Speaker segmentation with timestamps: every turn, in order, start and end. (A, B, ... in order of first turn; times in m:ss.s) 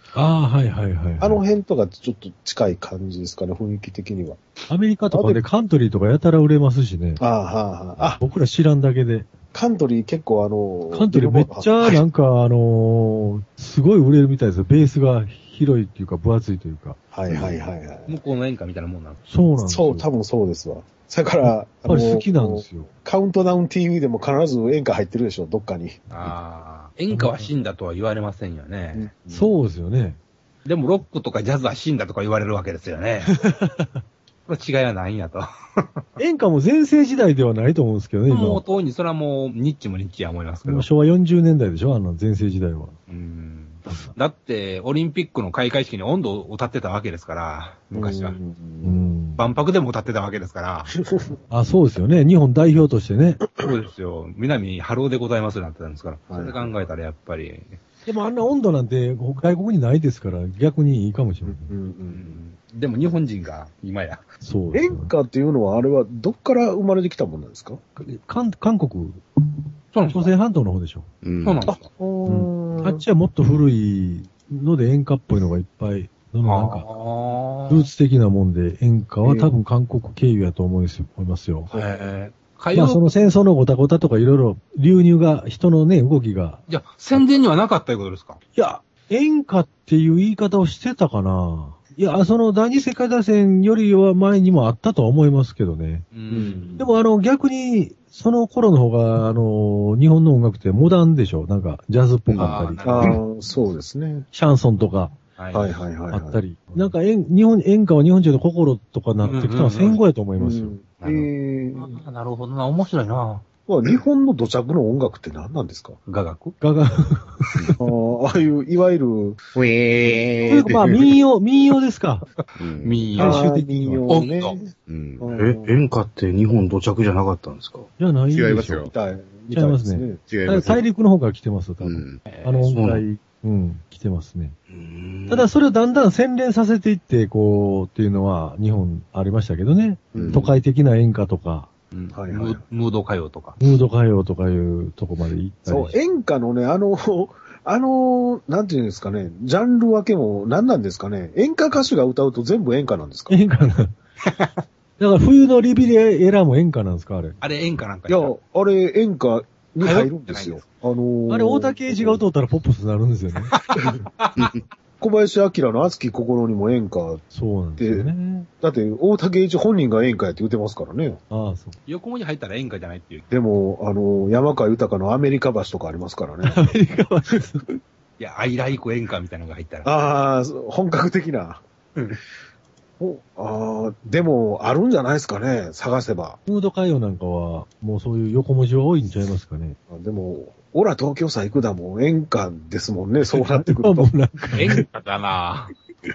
0:00.1-0:01.4 A
0:01.2-0:04.4 B
0:04.7-0:07.2 A
0:05.1-0:05.4 B
0:07.2-0:08.2 B
0:08.2-0:09.3 A
0:09.5-0:12.0 B
0:10.9-0:17.0 A
0:17.1-0:18.2 B
0:17.3-0:17.5 C
0:18.1-0:19.2 D
0:19.3-0:20.1 A
0:19.6-0:26.1 B
0:21.4-0:22.9 A
0:26.1-0:29.1 D
0:27.1-0:27.5 A
0:28.9-0:29.5 B
0:29.3-0:30.2 A
0:30.6-0:33.4 D
0:33.3-0:34.0 A
0:34.5-0:36.0 D
0:36.2-0:38.6 A
0:38.3-0:40.9 D
0:40.6-0:43.0 A
0:43.1-0:48.4 D
0:43.9-0:44.1 A
0:47.9-0:49.0 B
0:48.8-0:49.4 A
0:49.4-0:51.0 D
0:51.5-0:53.4 A
0:53.6-0:57.8 D
0:56.3-0:56.8 B
0:58.0-1:01.7 A
1:01.4-1:02.4 B
1:02.1-1:04.2 D
1:04.4-1:05.1 A
1:04.7-1:07.8 B
1:08.0-1:09.2 A
1:09.9-1:10.3 D
1:10.1-1:11.1 A
1:11.2-1:11.6 C
1:11.4-1:11.9 D
1:11.7-1:13.0 B
1:12.2-1:16.9 A
1:16.4-1:17.9 D
1:17.7-1:21.7 A
1:19.2-1:19.5 B
1:21.7-1:23.2 D
1:22.7-1:26.6 A
1:26.7-1:28.4 D
1:28.5-1:36.1 A
1:36.1-1:36.8 D
1:36.3-1:36.8 B
1:36.8-1:43.2 A
1:42.3-1:43.2 D
1:42.8-1:44.3 B
1:44.3-1:45.1 A
1:45.4-1:45.8 D
1:45.5-1:46.4 B
1:46.1-1:50.7 A
1:49.2-1:50.0 D
1:50.4-1:52.0 B
1:51.0-1:53.4 D
1:53.7-1:56.0 B
1:56.1-1:56.6 D
1:56.6-1:57.8 A
1:57.8-1:59.4 B
1:59.5-2:01.2 C
2:00.5-2:02.3 A
2:02.4-2:03.4 D
2:02.6-2:03.1 C
2:03.1-2:05.7 B
2:03.2-2:04.1 A
2:04.1-2:04.6 D
2:04.9-2:05.3 C
2:05.3-2:07.9 E
2:08.0-2:08.9 A
2:08.3-2:08.9 C
2:08.9-2:10.2 B
2:09.5-2:14.6 A
2:10.3-2:10.8 C
2:11.8-2:12.2 C
2:12.3-2:12.7 D
2:12.7-2:13.0 E
2:14.7-2:15.5 E
2:15.3-2:21.7 A
2:20.1-2:20.5 B
2:20.1-2:20.4 C
2:21.9-2:23.6 D
2:22.1-2:22.6 B
2:23.6-2:25.9 A
2:25.6-2:33.4 B
2:33.3-2:33.9 A
2:35.0-2:37.4 A
2:37.4-2:38.3 D
2:38.1-2:42.2 B
2:39.8-2:40.6 D
2:41.3-2:43.5 A
2:43.5-2:44.6 D
2:45.0-2:47.2 B
2:47.3-2:48.5 A
2:47.8-2:51.2 B
2:51.3-2:51.8 A
2:51.9-2:53.3 D
2:53.3-2:56.6 B
2:56.4-2:57.6 A
2:58.2-2:59.9 D
2:59.8-3:01.6 B
3:03.0-3:06.4 B
3:06.4-3:09.8 A
3:09.9-3:14.1 B
3:13.3-3:14.8 A
3:14.6-3:15.7 D